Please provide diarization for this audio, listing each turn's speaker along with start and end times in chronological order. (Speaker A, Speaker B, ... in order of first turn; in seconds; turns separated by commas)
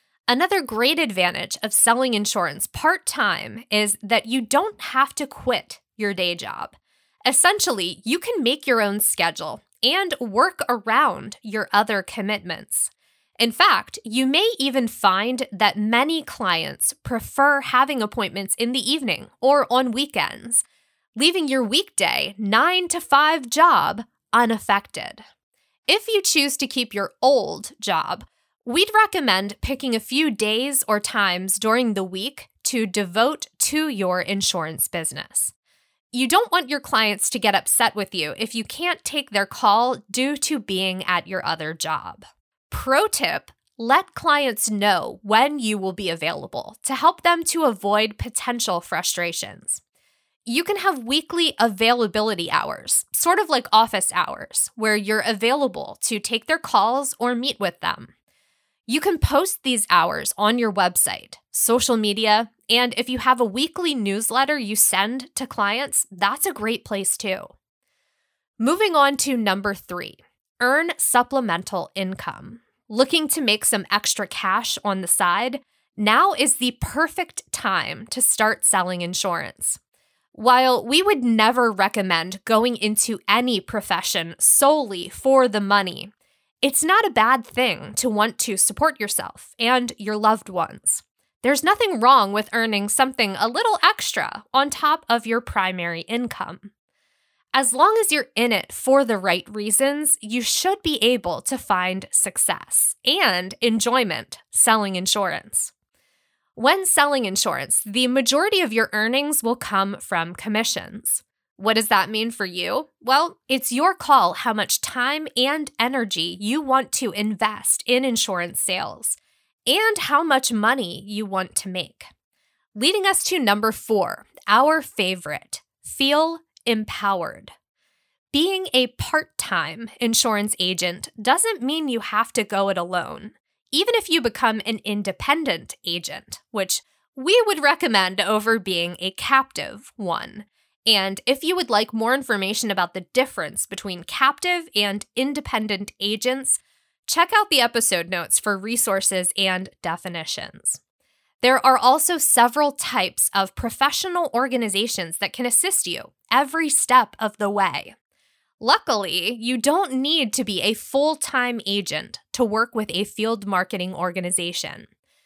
Speaker A: 0.3-20.6, Speaker A: 21.2-25.2, Speaker A: 25.9-35.5, Speaker A: 36.1-49.8, Speaker A: 50.5-58.1, Speaker A: 58.9-67.5, Speaker A: 68.6-79.8, Speaker A: 80.3-86.1, Speaker A: 86.6-96.7, Speaker A: 97.5-105.7, Speaker A: 106.6-122.1, Speaker A: 122.8-127.5, Speaker A: 128.3-150.8, Speaker A: 151.4-158.0, Speaker A: 158.6-164.9